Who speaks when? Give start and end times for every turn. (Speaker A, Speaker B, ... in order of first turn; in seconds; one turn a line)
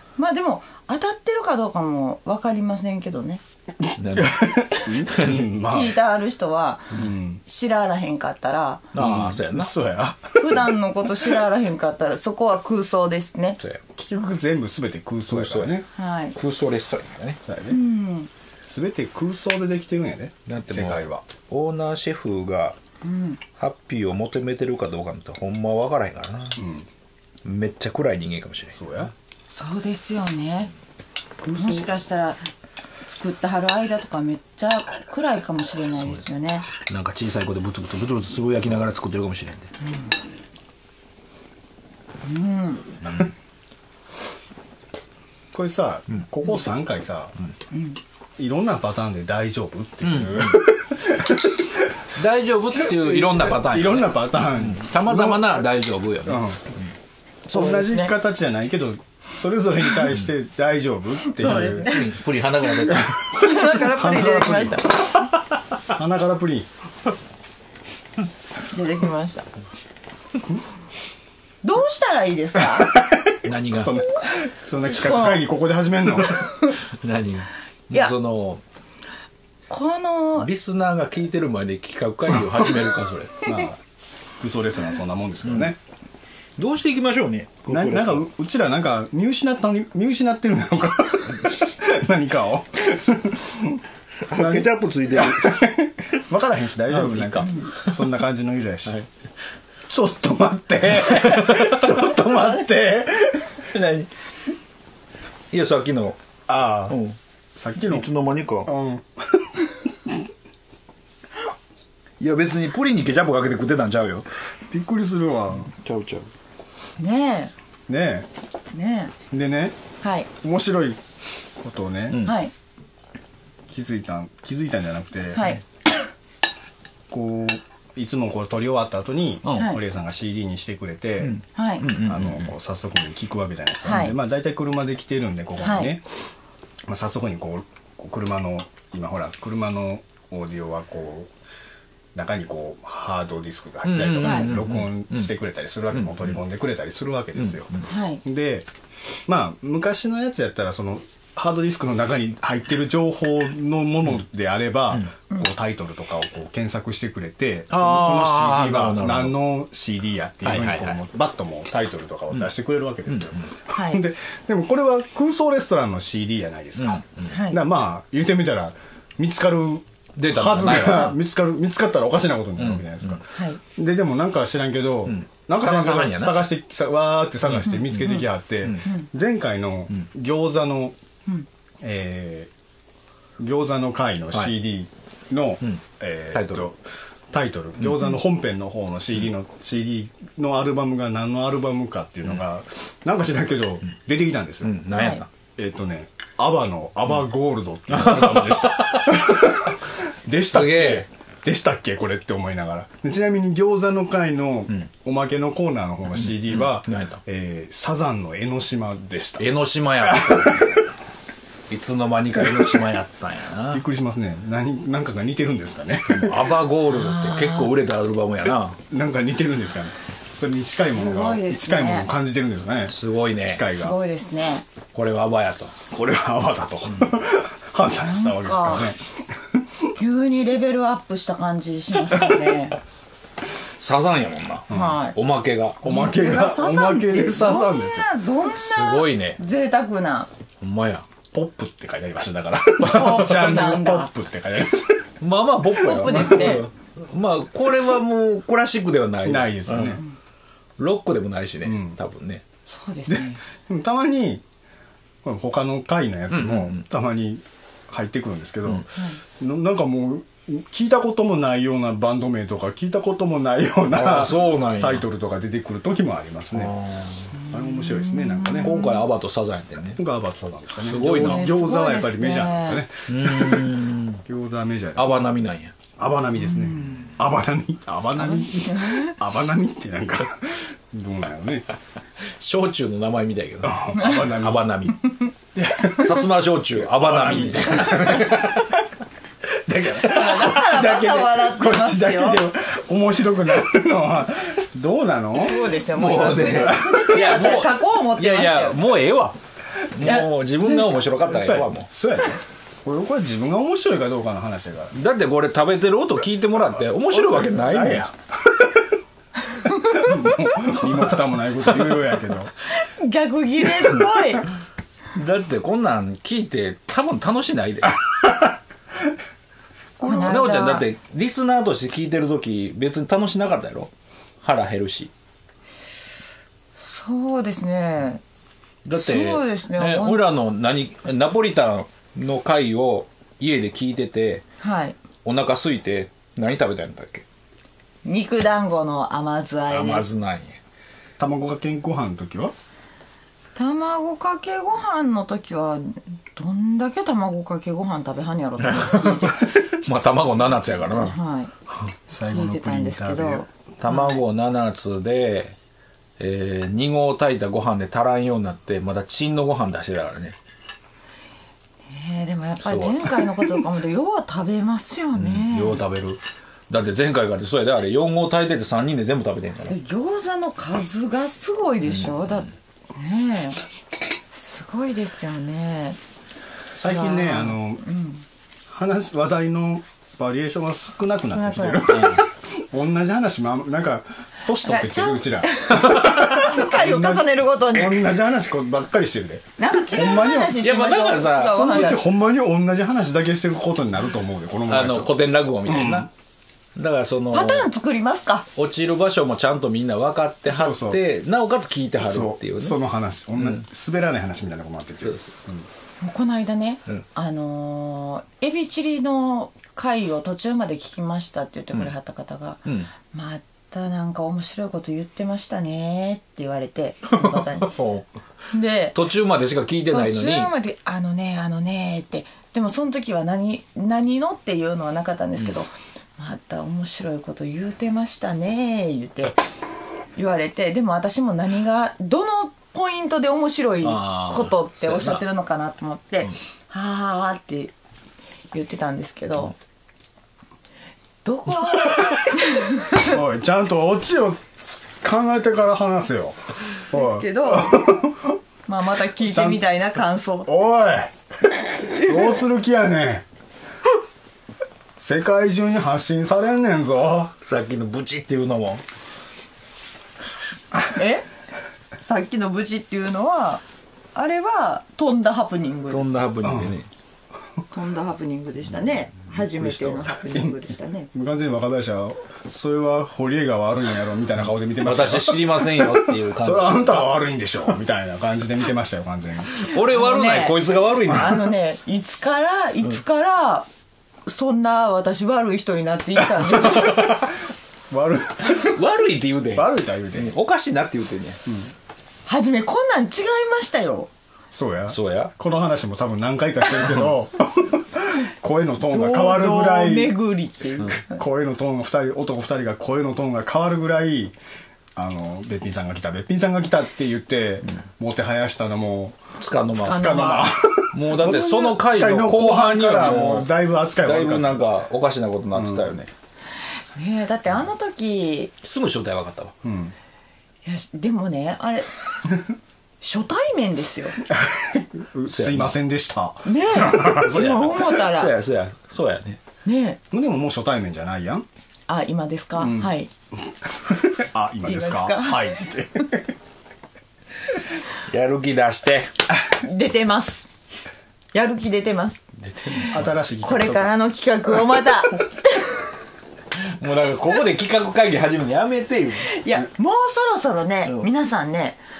Speaker A: 0.2-3.4
Speaker B: 3.9-5.9
Speaker C: 4.0-4.5
Speaker C: 5.1-5.4
Speaker A: 5.6-8.9
Speaker B: 6.9-7.4
Speaker C: 8.9-9.7
Speaker B: 8.9-10.7
Speaker A: 10.4-13.6
Speaker B: 13.9-15.8
Speaker C: 15.3-15.8
Speaker A: 15.9-16.4
Speaker C: 16.3-17.4
Speaker B: 17.4-17.8
Speaker A: 17.7-18.3
Speaker B: 18.6-21.2
Speaker C: 20.5-22.8
Speaker A: 23.0-23.4
Speaker C: 23.6-26.6
Speaker B: 26.6-26.9
Speaker C: 27.4-28.8
Speaker B: 28.7-29.1
Speaker A: 29.5-30.7
Speaker B: 31.4-31.9
Speaker A: 31.6-32.5
Speaker A: 33.0-36.7
Speaker C: 36.9-39.7
Speaker A: 42.2-43.0
Speaker B: 45.5-47.3
Speaker B: 48.4-52.0
Speaker C: 50.0-50.6
Speaker C: 52.1-54.0
Speaker B: 52.8-55.6
Speaker C: 54.6-56.9
Speaker B: 56.2-56.6
Speaker A: 57.5-58.1
Speaker B: 57.5-61.9
Speaker A: 61.2-62.1
Speaker C: 61.4-63.1
Speaker B: 62.9-65.0
Speaker A: 63.3-65.2
Speaker B: 65.9-66.7
Speaker A: 68.7-69.5
Speaker A: 71.6-73.0
Speaker B: 73.1-76.4
Speaker C: 73.4-74.0
Speaker A: 74.9-75.4
Speaker A: 76.5-76.8
Speaker C: 76.9-78.6
Speaker A: 79.7-80.5
Speaker C: 80.4-83.4
Speaker B: 83.4-83.8
Speaker B: 84.4-85.8
Speaker C: 86.6-88.2
Speaker B: 87.7-99.0
Speaker C: 94.2-95.6
Speaker C: 96.9-98.0
Speaker B: 99.9-103.7
Speaker C: 100.9-102.7
Speaker C: 103.6-104.1
Speaker C: 105.5-106.2
Speaker B: 106.5-107.0
Speaker C: 106.9-107.2
Speaker B: 107.5-108.1
Speaker C: 107.8-108.7
Speaker B: 108.6-110.2
Speaker C: 112.2-114.2
Speaker B: 114.7-115.7
Speaker C: 115.7-116.3
Speaker A: 117.0-117.5
Speaker B: 117.9-118.3
Speaker A: 118.7-119.1
Speaker B: 119.3-119.8
Speaker A: 120.0-120.3
Speaker B: 120.4-121.0
Speaker B: 121.6-122.2
Speaker C: 122.1-122.3
Speaker A: 122.2-122.5
Speaker B: 123.7-125.5
Speaker A: 125.3-125.6
Speaker B: 127.1-131.4
Speaker A: 129.6-129.8
Speaker C: 131.2-132.5
Speaker A: 131.5-131.8
Speaker B: 131.9-136.2
Speaker A: 133.8-134.1
Speaker A: 135.6-135.9
Speaker B: 136.9-141.3
Speaker B: 142.1-147.7
Speaker C: 143.8-145.3
Speaker A: 144.2-144.5
Speaker C: 147.4-147.8
Speaker A: 147.9-148.2
Speaker B: 148.2-148.7
Speaker B: 149.3-180.9
Speaker C: 157.7-159.3
Speaker C: 160.4-161.0
Speaker C: 163.1-163.4
Speaker A: 163.7-164.0
Speaker C: 166.8-167.3
Speaker A: 167.3-167.6
Speaker C: 170.2-171.1
Speaker C: 172.6-173.2
Speaker A: 173.3-173.6
Speaker C: 175.1-176.4
Speaker C: 177.5-178.9
Speaker B: 181.8-182.5
Speaker B: 183.4-186.8
Speaker C: 186.3-186.7
Speaker B: 187.3-194.8
Speaker C: 194.6-195.3
Speaker A: 194.9-195.2
Speaker B: 195.6-209.5
Speaker C: 198.0-199.2
Speaker C: 200.5-201.1
Speaker C: 206.2-207.2
Speaker C: 209.4-210.8
Speaker B: 210.0-210.7
Speaker C: 211.7-213.8
Speaker B: 213.7-216.5
Speaker C: 216.1-218.8
Speaker A: 216.9-217.7
Speaker B: 218.9-222.9
Speaker A: 220.9-222.1
Speaker C: 222.9-223.7
Speaker B: 223.4-224.0
Speaker A: 223.7-224.6
Speaker C: 224.9-225.9
Speaker B: 225.9-229.9
Speaker A: 228.0-228.9
Speaker A: 230.0-232.8
Speaker C: 233.6-235.8
Speaker A: 234.7-235.2
Speaker B: 235.8-238.1
Speaker A: 235.8-240.3
Speaker C: 238.5-239.4
Speaker C: 240.6-241.1
Speaker B: 241.3-245.1
Speaker A: 242.8-244.1
Speaker C: 245.2-250.0
Speaker B: 245.8-246.5
Speaker A: 245.8-246.7
Speaker B: 249.2-250.0
Speaker C: 250.8-252.4
Speaker B: 251.6-251.9
Speaker A: 252.7-253.4
Speaker B: 253.1-254.4
Speaker B: 255.2-266.8
Speaker C: 256.3-256.8
Speaker C: 263.9-265.0
Speaker C: 266.5-267.3
Speaker A: 267.4-269.0
Speaker B: 267.4-268.8
Speaker C: 268.6-270.0
Speaker B: 269.9-275.2
Speaker C: 270.8-271.4
Speaker A: 271.1-272.8
Speaker C: 273.1-274.2
Speaker C: 274.9-275.7
Speaker B: 275.9-281.7
Speaker A: 276.6-277.1
Speaker A: 278.7-279.1
Speaker C: 282.4-285.0
Speaker B: 283.6-284.7
Speaker B: 285.5-286.3
Speaker C: 285.9-288.8
Speaker B: 286.9-288.6
Speaker C: 289.7-290.5
Speaker B: 289.7-295.7
Speaker A: 290.0-292.4
Speaker A: 295.4-298.8
Speaker C: 295.9-299.4
Speaker B: 296.2-297.3
Speaker C: 299.9-301.9
Speaker A: 300.0-300.3
Speaker B: 301.2-304.9
Speaker C: 304.9-308.1
Speaker B: 307.1-308.6
Speaker A: 309.5-310.7
Speaker B: 310.0-312.5
Speaker C: 311.7-312.2
Speaker A: 312.7-314.4
Speaker C: 315.1-318.0
Speaker A: 320.0-320.9
Speaker C: 320.0-323.9
Speaker C: 324.4-325.1
Speaker A: 326.8-328.2
Speaker C: 328.8-334.4
Speaker A: 329.0-330.2
Speaker A: 334.6-335.0
Speaker C: 335.2-337.2
Speaker A: 338.0-340.1
Speaker C: 339.7-340.6
Speaker B: 341.2-342.5
Speaker A: 343.5-349.4
Speaker C: 348.6-351.1
Speaker A: 350.8-351.5
Speaker B: 352.1-353.4
Speaker A: 352.2-354.2
Speaker C: 353.8-355.5
Speaker C: 356.2-360.4
Speaker A: 361.9-365.8
Speaker C: 362.6-363.4
Speaker C: 365.2-369.8
Speaker A: 369.7-373.6
Speaker A: 374.3-376.0
Speaker B: 376.7-377.8
Speaker A: 376.8-378.2
Speaker B: 378.7-390.7
Speaker A: 381.3-382.2
Speaker C: 381.9-382.2
Speaker A: 384.6-388.1
Speaker A: 389.6-392.1
Speaker C: 390.4-392.0
Speaker B: 391.5-395.1
Speaker C: 394.7-396.1
Speaker B: 395.6-396.1
Speaker C: 396.8-397.6
Speaker A: 397.3-398.5
Speaker C: 398.5-402.8
Speaker B: 400.5-401.0
Speaker B: 402.0-405.7
Speaker C: 405.0-405.3
Speaker A: 406.0-417.7
Speaker C: 412.6-412.9
Speaker C: 417.6-418.1
Speaker A: 418.5-418.9
Speaker C: 418.9-420.5
Speaker A: 419.9-429.4
Speaker A: 430.1-437.7
Speaker C: 433.8-435.2
Speaker A: 438.5-439.5
Speaker A: 441.2-443.1
Speaker B: 443.0-448.4
Speaker A: 446.9-447.9
Speaker A: 448.6-450.5
Speaker B: 449.2-449.6
Speaker B: 450.5-453.2
Speaker B: 455.0-457.3
Speaker C: 457.4-458.8
Speaker A: 460.9-461.2
Speaker A: 462.0-463.6
Speaker A: 464.1-466.1
Speaker C: 465.9-466.9
Speaker B: 466.4-466.7
Speaker A: 467.7-471.1
Speaker C: 469.6-470.0
Speaker B: 470.1-470.6
Speaker B: 471.1-479.6
Speaker C: 474.8-477.0
Speaker C: 479.6-481.5
Speaker A: 479.7-483.7
Speaker A: 484.2-487.1
Speaker B: 486.7-487.3
Speaker B: 487.9-488.8
Speaker C: 488.6-491.4
Speaker B: 489.5-490.3
Speaker B: 491.4-491.7
Speaker A: 492.3-494.1
Speaker B: 494.5-500.1
Speaker C: 494.9-495.3
Speaker A: 498.9-501.2
Speaker B: 500.8-504.3
Speaker B: 504.9-509.2
Speaker C: 509.4-510.2
Speaker A: 509.7-510.5
Speaker B: 509.9-514.6
Speaker C: 510.9-516.1
Speaker B: 515.5-516.0
Speaker A: 516.9-518.5
Speaker C: 518.6-519.5
Speaker B: 519.6-519.9
Speaker A: 520.6-522.0
Speaker A: 523.0-524.2
Speaker B: 524.2-527.4
Speaker C: 525.3-525.7
Speaker A: 526.4-528.3
Speaker C: 526.9-529.4
Speaker A: 529.6-530.0
Speaker B: 530.1-531.5
Speaker A: 531.9-533.1
Speaker B: 532.6-532.9
Speaker B: 533.9-536.3
Speaker A: 534.6-535.5
Speaker C: 537.9-539.1
Speaker A: 539.5-540.5
Speaker A: 541.3-545.9
Speaker C: 542.4-543.1
Speaker B: 542.9-543.9
Speaker C: 546.5-549.3
Speaker A: 549.2-551.8